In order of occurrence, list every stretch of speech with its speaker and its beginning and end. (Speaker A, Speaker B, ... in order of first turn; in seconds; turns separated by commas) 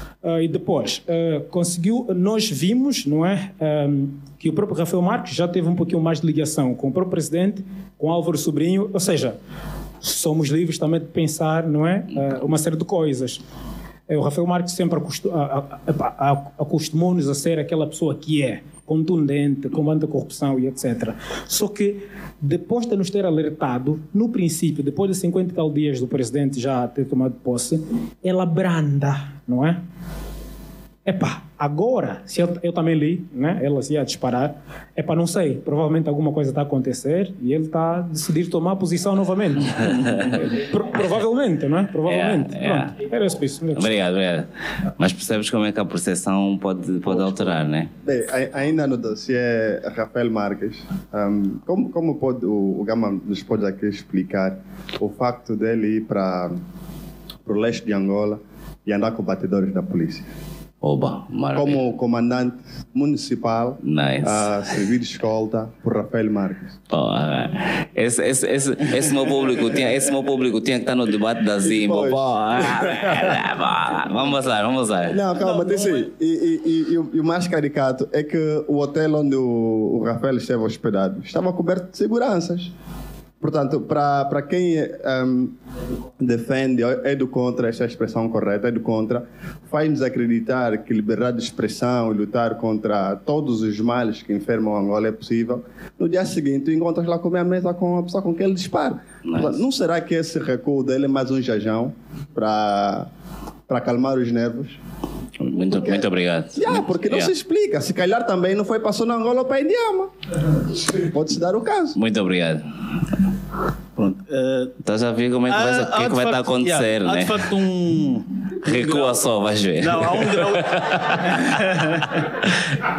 Speaker A: 0.2-9.3, Speaker A: 10.0-13.4, Speaker A: 14.1-29.8, Speaker A: 31.1-43.9, Speaker B: 42.0-43.0, Speaker B: 43.7-47.9, Speaker C: 47.1-56.5, Speaker C: 57.5-60.2, Speaker B: 60.8-61.8, Speaker C: 61.5-66.7, Speaker B: 63.8-64.6, Speaker B: 66.9-75.3, Speaker C: 71.6-73.3, Speaker C: 75.1-82.7, Speaker C: 83.4-85.5, Speaker C: 86.2-103.1, Speaker B: 99.3-99.6, Speaker C: 103.7-104.8, Speaker B: 105.4-107.3, Speaker C: 106.5-110.1, Speaker C: 110.9-112.0, Speaker B: 112.0-112.6, Speaker D: 114.0-114.8, Speaker B: 114.8-117.5, Speaker D: 115.5-119.2, Speaker B: 118.6-122.5, Speaker D: 119.8-122.4